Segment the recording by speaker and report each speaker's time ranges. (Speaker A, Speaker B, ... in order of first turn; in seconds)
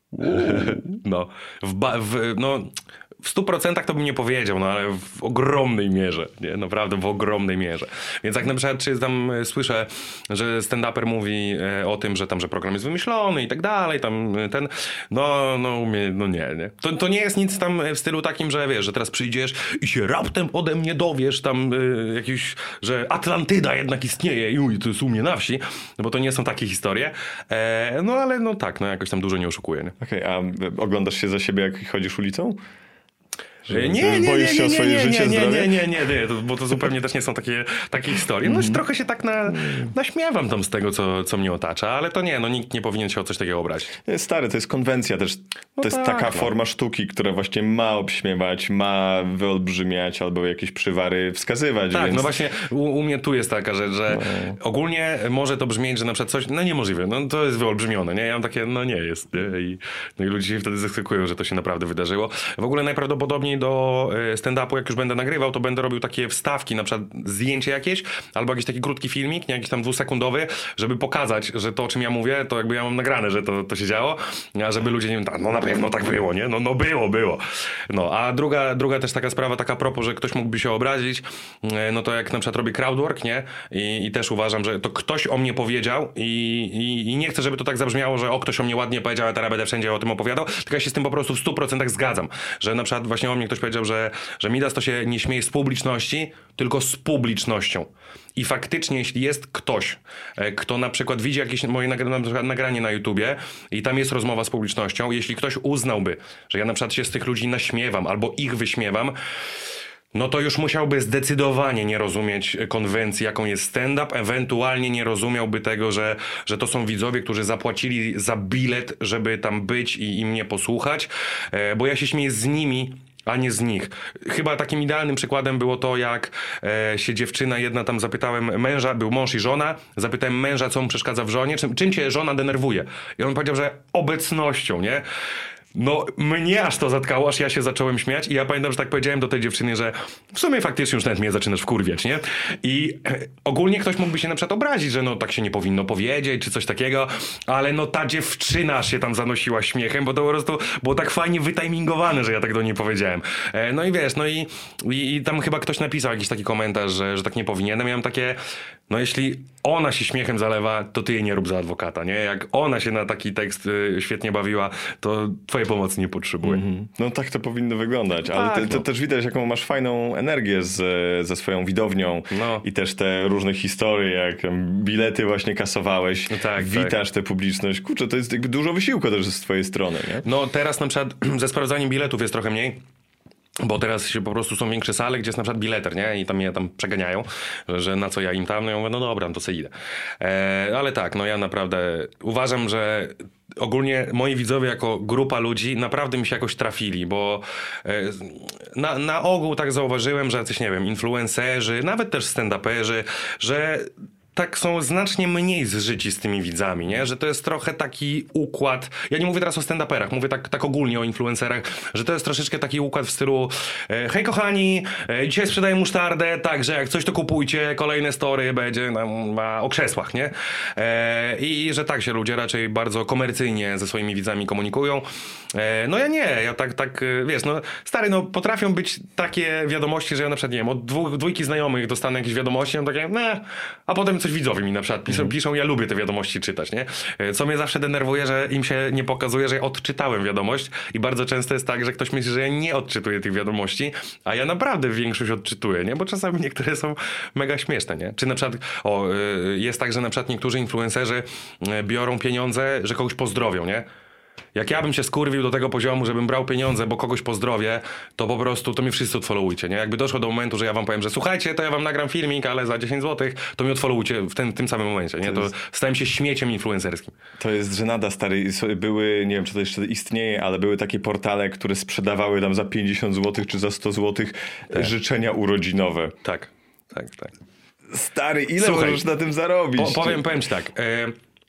Speaker A: 0.2-0.8, 30.0-32.6, 33.7-35.9, 38.4-38.8, 39.6-39.9, 44.0-52.3, 54.1-54.6, 166.4-180.2, 265.2-265.5, 267.4-276.1, 277.9-280.2
Speaker B: 0.2-30.0, 33.7-44.0, 45.8-46.5, 51.9-109.2, 110.1-135.1, 135.7-166.6, 168.3-168.8, 172.3-172.6, 176.3-177.0, 180.2-182.8, 183.6-253.9, 254.6-267.1, 276.2-277.3, 278.6-279.0, 279.8-281.2